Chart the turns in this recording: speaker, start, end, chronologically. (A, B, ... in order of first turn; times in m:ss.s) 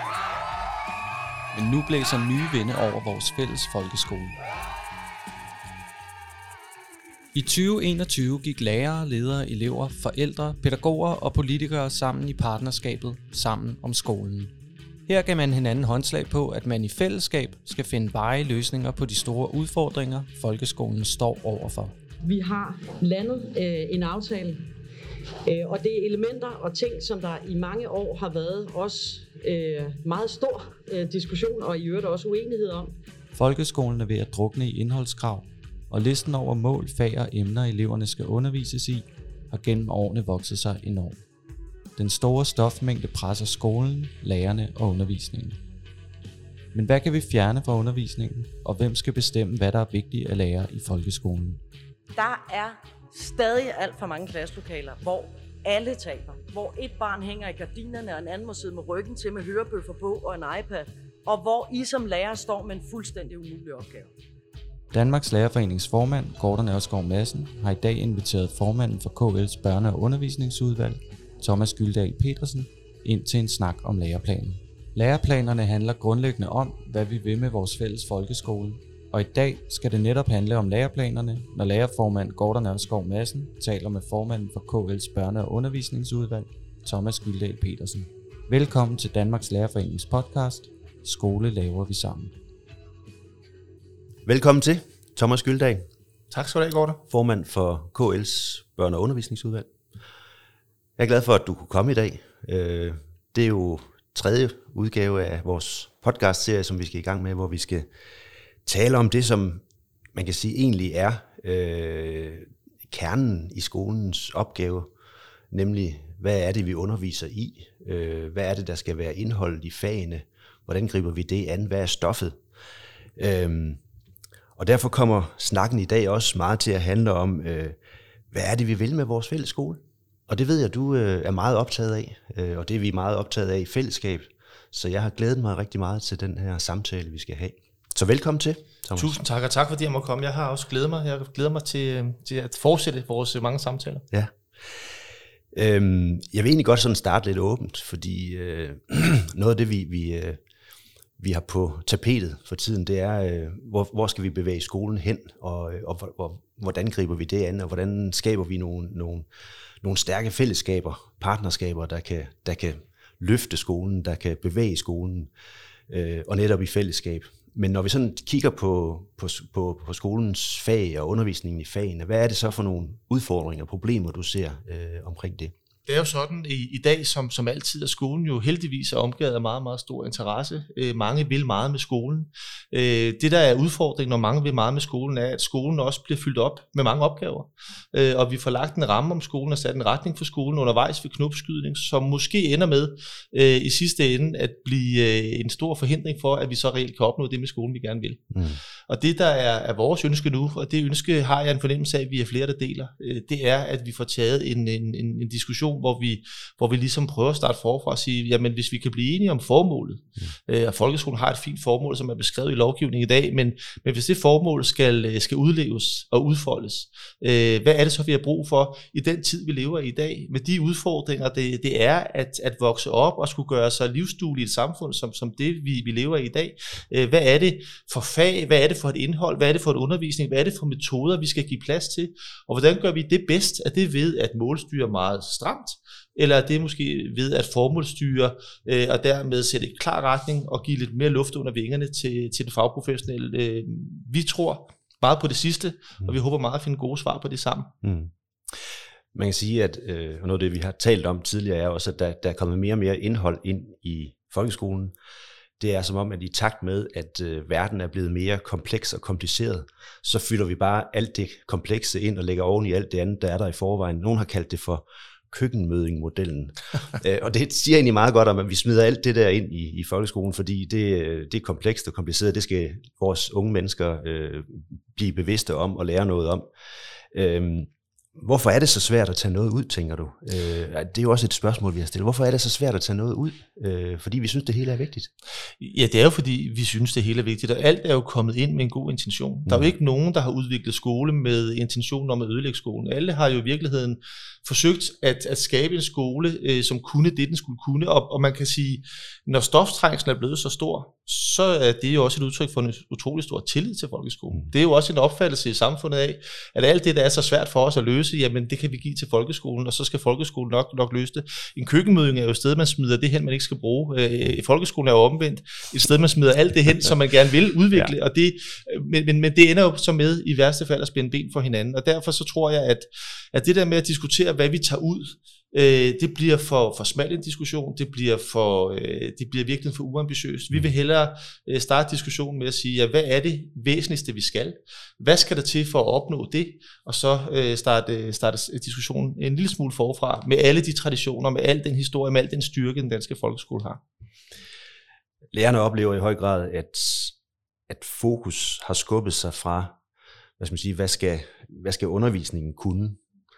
0:01.5-0:04.4 A
0:07.3-0:14.5 A
0:15.1-0:21.9 A
0:22.2-0:24.7 B
0:25.4-0:32.9 B
0:33.3-0:41.2 A
0:42.0-0:45.6 A
0:46.7-0:51.6 A
0:52.1-1:04.1 C
1:04.9-1:32.3 A
1:34.2-1:35.9 D
1:36.3-1:37.0 E
1:37.1-1:39.7 D
1:41.0-1:47.9 D
1:48.6-1:49.6 D
1:50.1-1:54.9 D
1:55.5-2:02.4 D
2:03.2-2:03.8 D
2:04.6-2:07.8 D
2:08.3-2:19.2 D
2:18.9-2:24.0 E
2:24.1-2:24.8 D
2:25.5-2:30.4 D
2:31.2-2:39.3 D
2:39.8-2:45.3 D
2:45.9-2:55.5 D
2:55.9-3:18.3 E
3:18.3-3:18.6 D
3:18.9-4:07.7 E
4:07.8-4:14.9 D
4:15.6-4:36.5 D
4:37.1-4:45.1 D
4:45.6-5:43.8 E
5:45.3-5:47.1 D
5:47.7-5:49.8 D
5:50.4-5:53.0 D